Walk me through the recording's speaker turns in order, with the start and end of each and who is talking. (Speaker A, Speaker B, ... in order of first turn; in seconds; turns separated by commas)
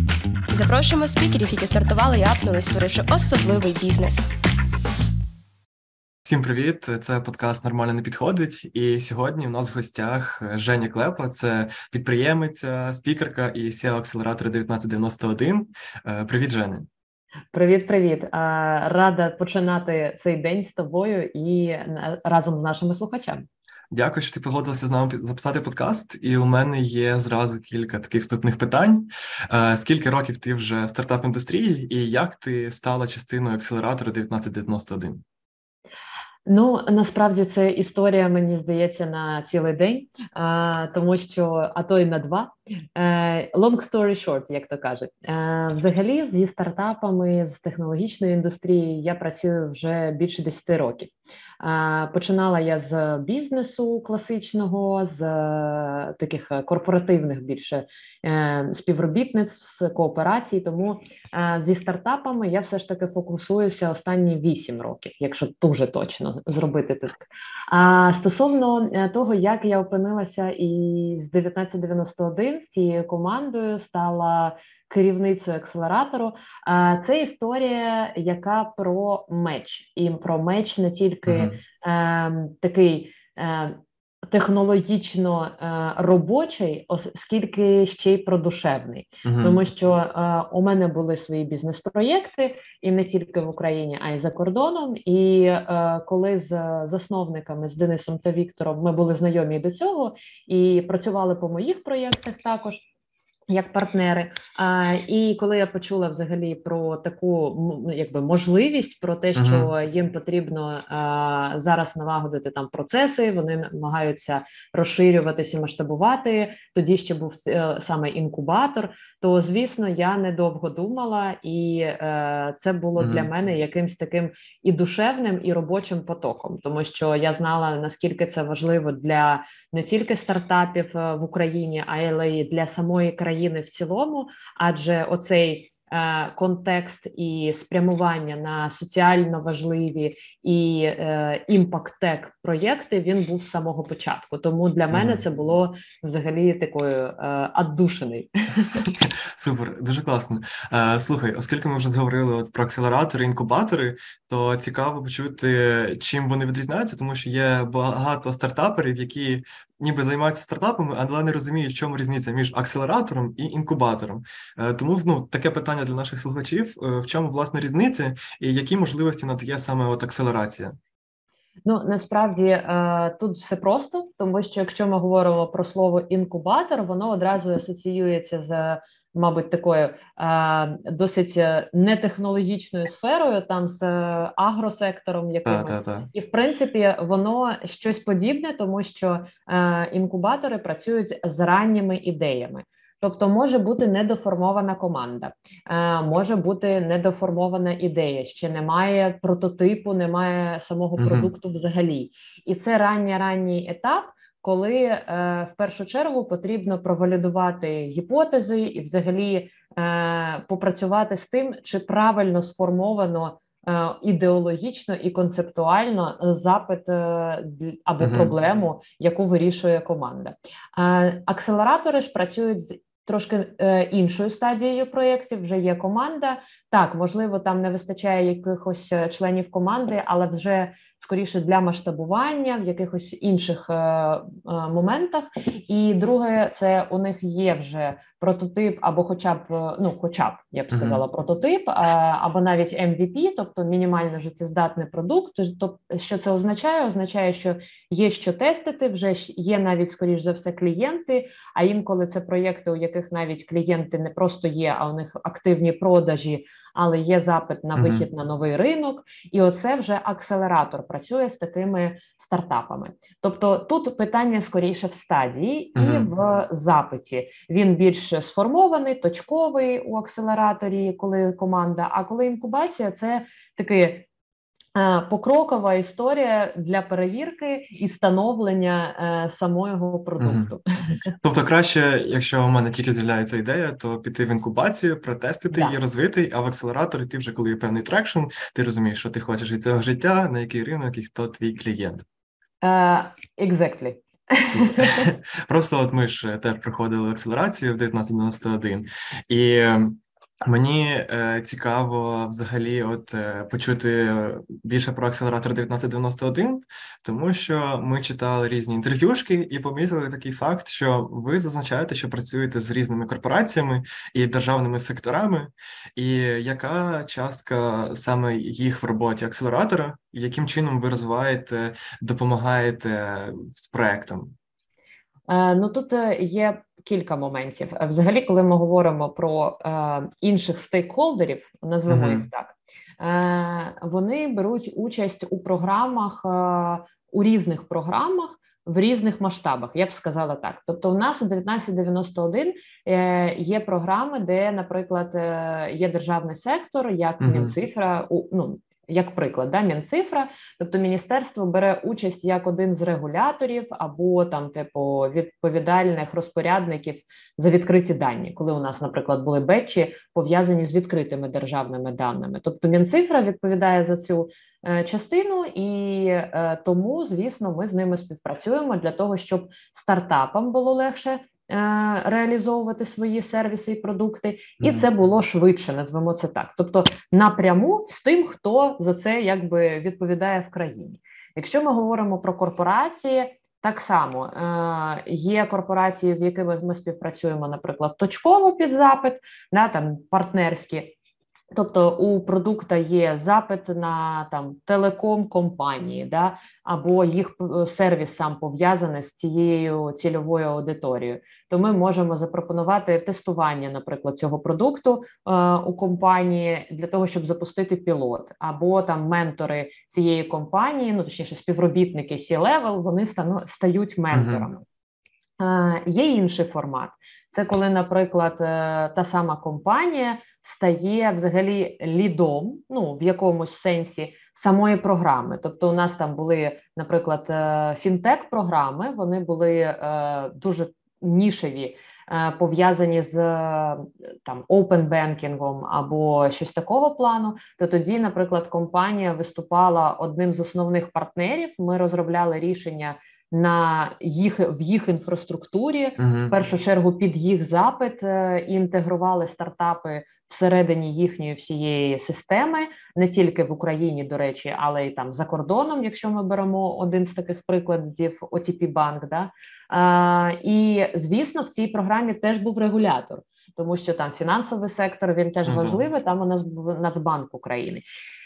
Speaker A: 0.5-4.3, Speaker B: 6.2-16.9, Speaker C: 17.5-23.5, Speaker B: 23.9-35.2, Speaker C: 36.5-102.8, Speaker B: 81.3-81.6, Speaker B: 89.2-89.6, Speaker C: 103.5-148.8, Speaker B: 109.3-109.7, Speaker B: 123.0-123.3, Speaker B: 144.9-145.2, Speaker B: 148.8-170.8, Speaker C: 171.7-274.1, Speaker B: 185.4-186.1, Speaker B: 201.0-201.3, Speaker B: 218.0-218.3, Speaker B: 240.7-241.0, Speaker B: 257.8-258.1, Speaker B: 265.8-266.1, Speaker C: 274.8-281.1, Speaker B: 280.2-280.5, Speaker B: 281.2-292.1, Speaker C: 285.5-285.8, Speaker C: 292.6-295.1, Speaker B: 294.4-324.4, Speaker C: 325.3-390.9, Speaker B: 331.9-332.3, Speaker B: 347.2-347.6, Speaker B: 374.6-374.9, Speaker C: 391.5-414.6, Speaker B: 414.1-414.5, Speaker C: 415.4-467.9, Speaker B: 446.0-446.4, Speaker B: 465.5-465.8